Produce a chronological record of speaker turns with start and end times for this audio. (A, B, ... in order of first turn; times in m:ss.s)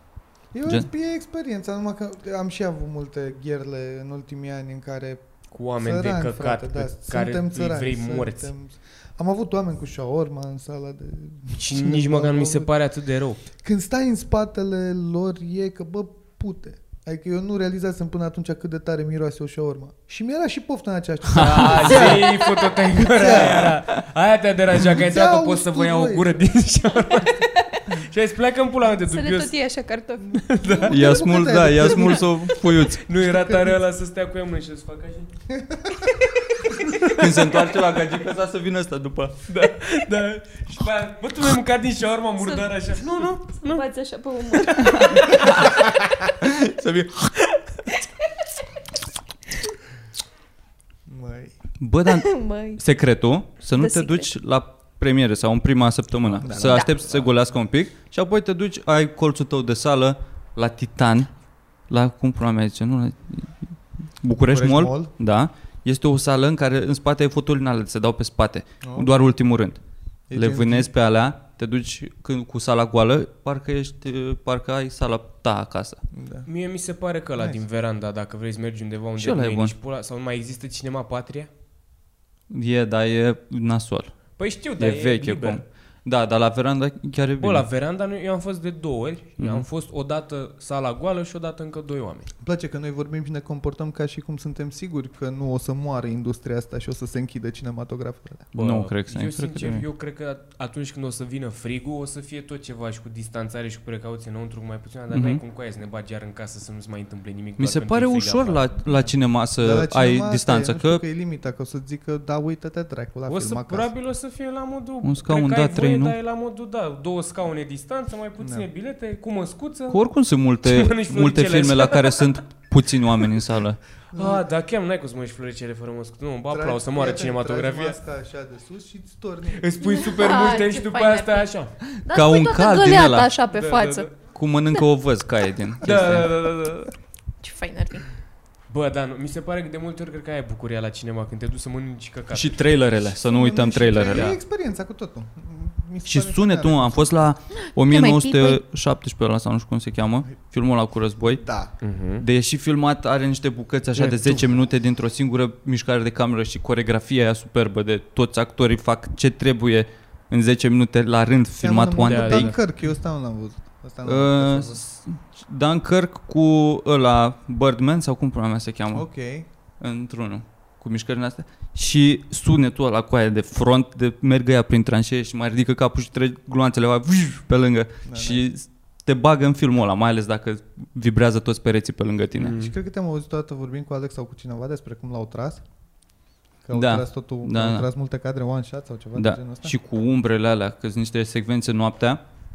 0:00.5-0:05.3 A
0:05.5-0:08.5 B
0:05.8-0:12.7 A
0:11.6-0:13.4 B
0:13.5-0:23.8 A
0:21.4-0:22.2 C
0:21.4-0:29.5 B
0:25.0-0:26.3 A
0:27.2-0:27.9 D
0:29.1-0:30.4 D
0:30.3-0:32.5 A
0:30.4-0:30.9 B
0:30.9-0:33.0 C
0:32.9-0:35.3 B
0:33.3-0:33.7 A
0:35.5-0:36.2 A
0:36.9-0:37.4 B
0:37.0-0:39.4 C
0:39.5-0:43.8 B
0:43.6-0:45.3 D
0:46.5-0:47.3 C
0:51.1-0:51.5 A
0:51.8-1:01.3 C
0:52.1-0:52.8 D
0:53.8-0:54.3 D
0:56.4-0:56.9 A
0:56.5-0:56.9 D
1:01.9-1:09.8 C
1:04.4-1:05.1 A
1:08.8-1:09.1 A
1:10.3-1:10.9 A
1:10.3-1:16.0 C
1:16.1-1:16.5 A
1:16.5-1:21.5 B
1:19.2-1:19.8 C
1:22.5-1:27.6 C
1:24.4-1:25.6 B
1:27.4-1:32.3 B
1:29.4-1:29.7 C
1:32.4-1:38.5 A
1:38.6-1:39.8 C
1:38.6-1:48.6 B
1:45.1-1:45.4 C
1:47.6-1:51.0 C
1:49.6-1:53.9 A
1:53.3-2:00.0 B
1:55.0-1:56.2 C
1:58.4-1:58.7 A
1:59.9-2:03.8 C
2:00.6-2:02.3 B
2:04.1-2:04.4 A
2:04.1-2:08.0 B
2:06.5-2:09.7 A
2:09.6-2:11.7 B
2:09.8-2:11.5 D
2:12.0-2:14.1 D
2:12.0-2:13.3 C
2:13.5-2:14.1 B
2:14.3-2:16.3 C
2:15.8-2:16.9 B
2:17.4-2:18.0 D
2:18.7-2:22.6 B
2:22.3-2:24.3 C
2:23.3-2:27.1 A
2:24.0-2:24.4 B
2:26.0-2:31.4 C
2:27.6-2:28.6 D
2:31.4-2:31.7 A
2:31.8-2:32.2 B
2:32.2-2:42.5 C
2:34.0-2:34.4 A
2:41.6-2:44.8 A
2:42.1-2:42.6 B
2:44.0-2:49.0 C
2:48.9-2:49.4 A
2:49.8-3:02.6 C
2:58.0-2:58.4 A
3:02.4-3:02.7 B
3:02.5-3:05.6 A
3:06.6-3:09.7 A
3:06.7-3:07.9 C
3:09.2-3:12.2 C